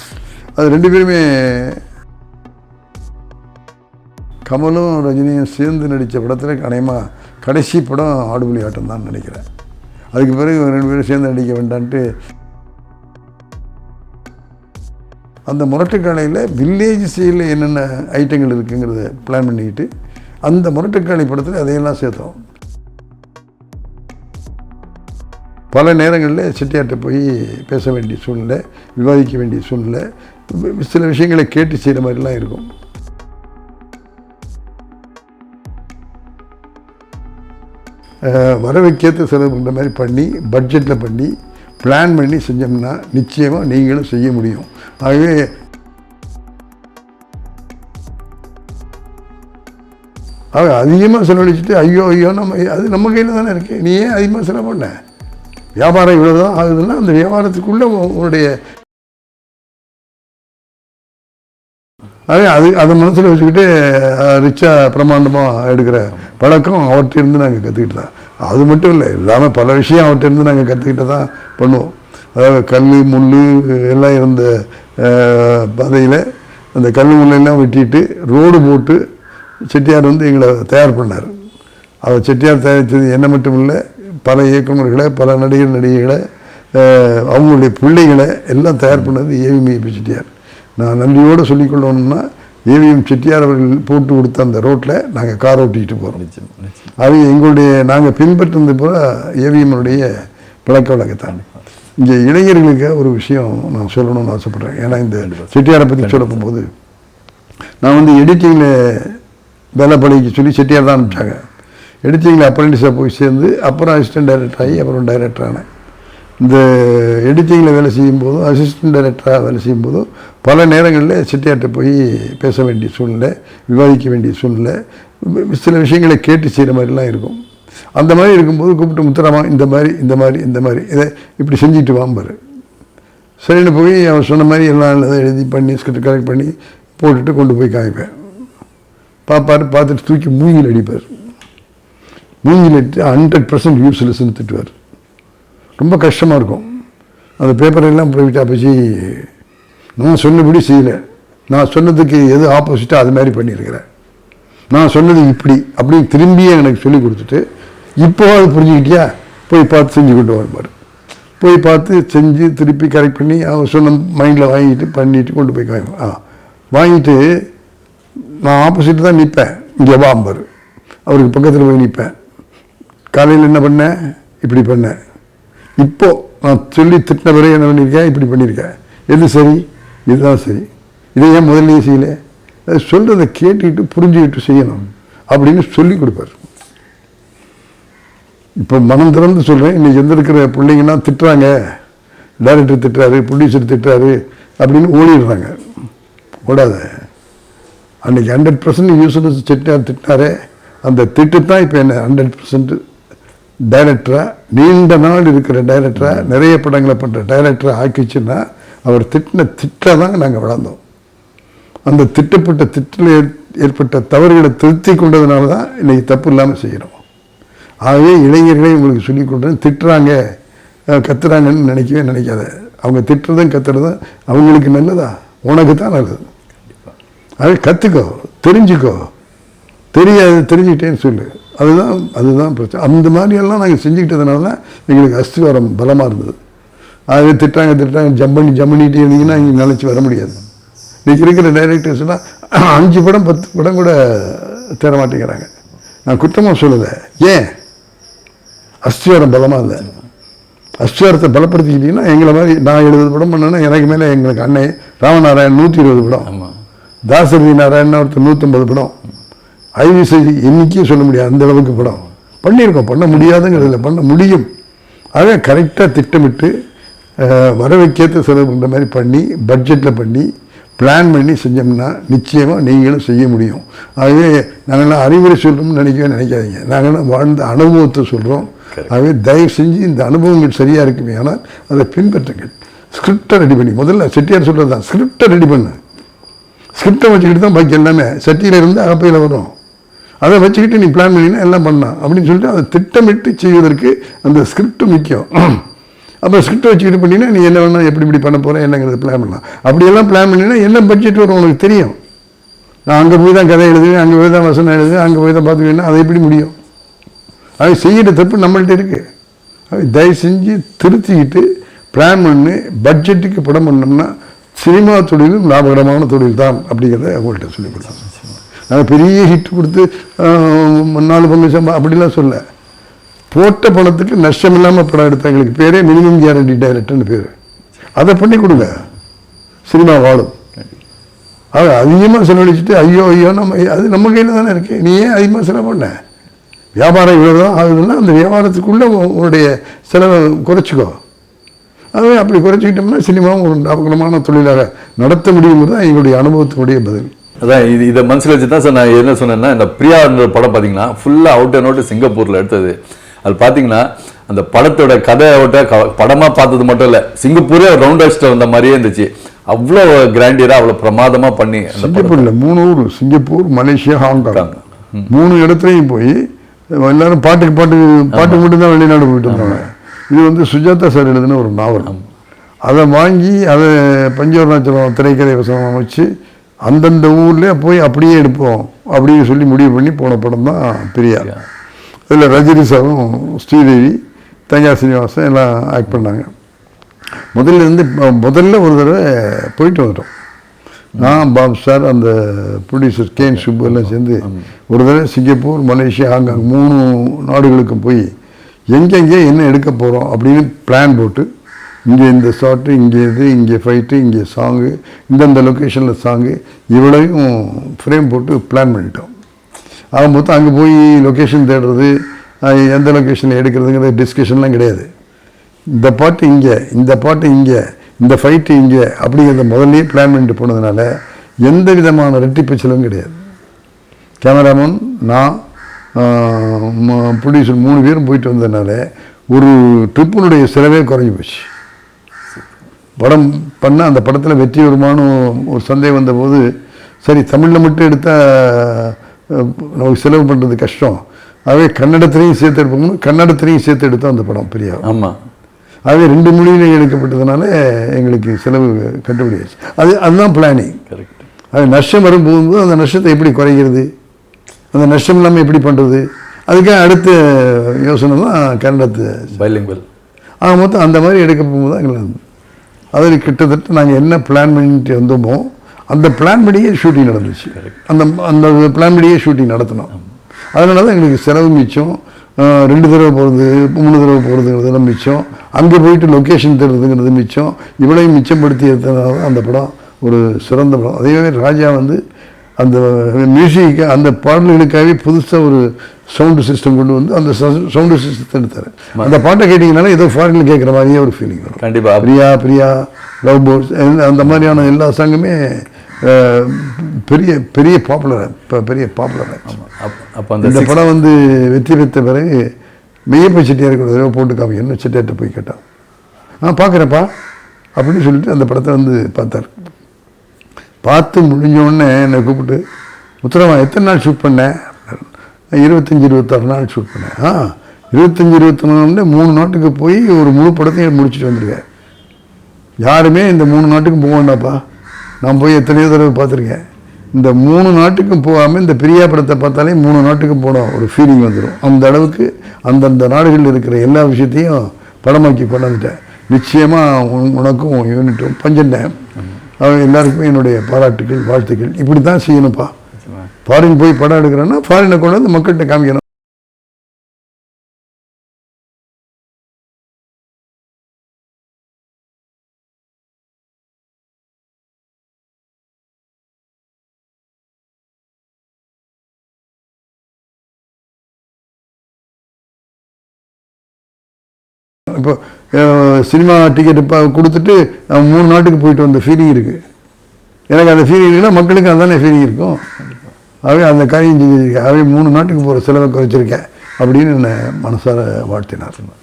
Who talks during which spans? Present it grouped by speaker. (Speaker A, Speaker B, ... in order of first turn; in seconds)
Speaker A: 0.6-1.8, 4.5-9.4, 10.1-12.0, 15.5-19.9, 20.4-22.4, 25.7-32.7, 38.2-45.5, 50.5-54.9, 55.8-58.5, 62.3-79.0, 79.7-81.3, 82.0-86.2, 86.7-96.2, 97.0-101.4, 102.0-106.7, 107.8-109.2, 109.8-111.4, 112.0-115.6, 116.4-127.4, 128.0-132.3, 133.4-138.1, 139.3-141.1, 142.4-144.7, 145.8-146.7, 147.4-149.3, 150.0-151.0, 151.5-153.8, 154.7-157.4, 158.0-160.7, 161.4-166.2, 166.7-167.2, 168.4-170.4, 171.1-172.1, 173.1-175.0, 175.8-186.4, 188.6-191.5, 192.4-195.6, 196.4-196.9, 198.0-202.8, 203.7-210.8, 211.9-217.0, 217.8-220.2, 220.9-226.3, 227.4-229.1, 229.9-236.4, 237.1-240.4, 241.1-245.5, 246.1-247.5, 248.8-250.0, 250.8-256.3, 257.1-258.9, 259.8-264.5, 265.1-266.5, 267.2-270.3, 270.8-285.8, 286.8-289.5, 290.2-295.6, 296.2-301.9, 302.9-306.5, 307.6-309.0, 309.7-318.1, 318.7-322.4, 323.3-327.3, 328.0-328.9, 329.7-330.3, 331.5-335.9, 336.8-340.9, 341.9-347.1, 361.7-366.2, 366.8-371.9, 372.6-376.1, 376.7-381.3, 382.1-384.0, 384.5-386.3, 387.3-390.1, 390.9-398.1, 398.7-401.2, 401.9-409.1, 409.9-411.9, 412.4-414.9, 415.8-420.9, 421.4-423.1, 424.2-425.4, 425.9-428.8, 429.3-431.5, 433.0-436.4, 437.0-444.9, 445.9-450.8, 451.5-453.9, 454.7-459.4, 460.4-462.2, 462.9-469.9, 470.5-482.0, 482.6-495.4, 496.0-499.5, 500.4-502.4, 503.1-505.6, 506.4-507.1, 507.8-509.5, 510.8-512.6, 513.2-521.6, 522.8-524.6, 525.2-526.6, 527.1-539.0, 539.6-542.7, 543.4-546.0, 564.9-569.6, 570.5-572.6, 573.5-578.8
Speaker B: 96.2-96.9, 105.0-106.4, 347.4-362.3, 364.3-365.0, 368.1-368.4, 369.3-369.6, 393.4-394.4, 444.8-445.1, 450.9-451.2, 459.4-459.9, 491.6-492.1, 499.5-500.8